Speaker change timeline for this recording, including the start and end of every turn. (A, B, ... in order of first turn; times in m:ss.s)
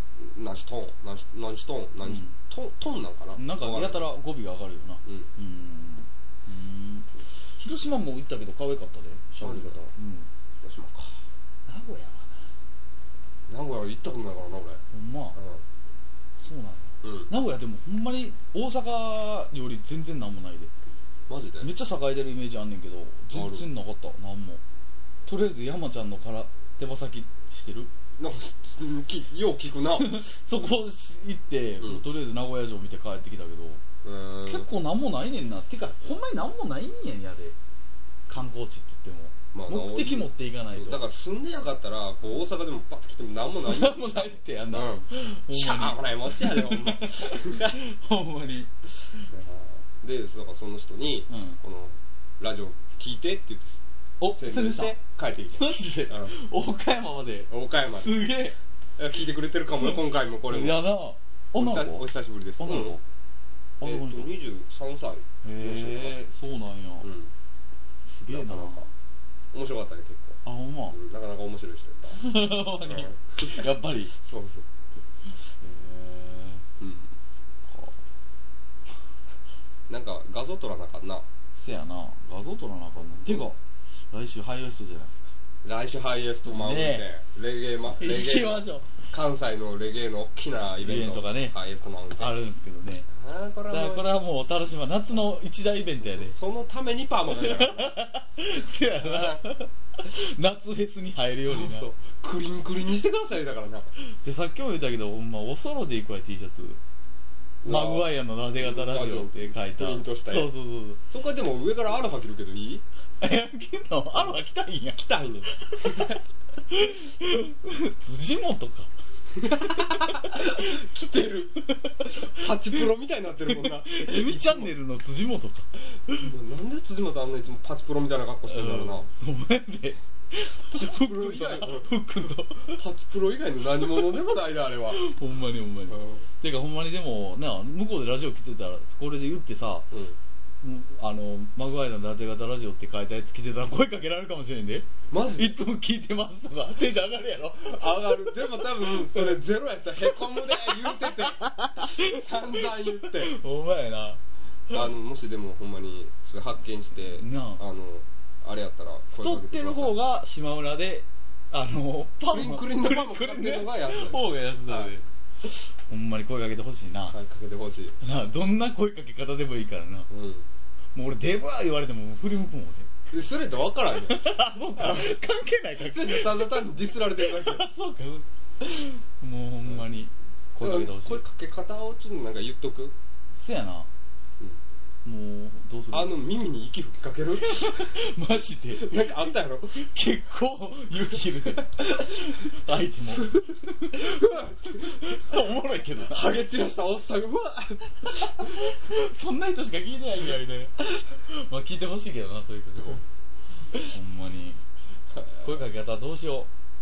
0:00.2-0:04.0 A
0:02.0-0:02.3 B
0:03.4-0:10.3 B
0:09.4-0:09.8 A
0:10.6-0:11.2 A
0:11.7-0:12.5 B
0:13.5-0:14.8 A
0:14.9-0:15.4 B
0:15.3-0:15.6 A
0:16.4-0:20.7 B
0:17.0-0:17.3 A
0:21.3-0:21.7 A
0:21.6-0:24.6 B
0:23.3-0:23.6 A
0:25.2-0:27.9 B
0:28.2-0:30.2 A
0:30.0-0:33.8 B
0:34.0-0:34.7 A
0:34.4-0:37.5 B
0:38.3-0:41.0 B
0:39.5-0:47.8 A
0:43.6-0:49.3 B
0:49.3-0:56.4 A
0:51.3-0:51.6 B
0:54.2-0:55.0 B
0:55.6-0:58.6 B
0:57.5-0:58.1 A
0:59.0-1:00.9 A
1:00.5-1:03.0 B
1:01.6-1:03.0 A
1:03.8-1:04.3 B
1:03.8-1:06.2 A
1:05.4-1:07.1 B
1:07.0-1:07.3 A
1:08.1-1:08.8 B
1:08.3-1:08.9 A
1:09.5-1:12.3 A
1:10.4-1:11.0 B
1:12.1-1:14.1 B
1:12.8-1:14.6 A
1:15.5-1:16.6 B
1:16.8-1:17.1 A
1:17.7-1:18.0 B
1:19.9-1:21.2 A
1:21.5-1:23.6 B
1:23.2-1:23.5 A
1:24.1-1:25.3 B
1:25.6-1:32.3 A
1:26.4-1:27.1 B
1:28.0-1:28.9 B
1:30.8-1:31.6 B
1:32.2-1:33.1 B
1:33.1-1:34.1 A
1:33.7-1:36.3 B
1:36.0-1:38.0 A
1:37.3-1:41.9 B
1:38.9-1:39.4 A
1:41.4-1:43.9 A
1:44.0-1:46.8 B
1:47.6-1:50.5 A
1:47.6-1:51.0 B
1:51.1-1:52.8 A
1:53.2-1:58.9 B
1:54.9-1:56.2 A
1:59.4-2:04.8 A
2:00.2-2:00.6 B
2:01.6-2:02.5 B
2:03.5-2:06.2 B
2:06.1-2:09.1 A
2:08.5-2:12.8 B
2:10.7-2:11.9 A
2:12.7-2:15.0 A
2:14.9-2:19.9 B
2:15.9-2:16.3 A
2:19.9-2:20.2 A
2:20.6-2:29.4 B
2:25.1-2:25.6 A
2:27.6-2:33.4 A
2:30.0-2:34.9 B
2:34.7-2:40.0 A
2:37.1-2:37.6 B
2:39.2-2:47.1 B
2:42.3-2:44.9 A
2:47.1-2:48.0 A
2:48.0-2:50.1 B
2:50.1-2:50.4 A
2:50.9-2:52.9 B
2:53.1-2:55.1 A
2:54.0-2:56.6 B
2:55.9-2:57.6 A
2:57.2-3:01.2 B
3:00.6-3:02.9 A
3:03.3-3:03.9 B
3:05.0-3:06.2 B
3:05.9-3:08.0 A
3:07.4-3:09.1 B
3:08.7-3:09.9 A
3:09.7-3:16.4 B
3:13.1-3:15.4 A
3:16.0-3:18.7 A
3:18.3-3:23.0 B
3:23.7-3:24.6 B
3:25.1-3:25.6 A
3:25.4-3:26.5 B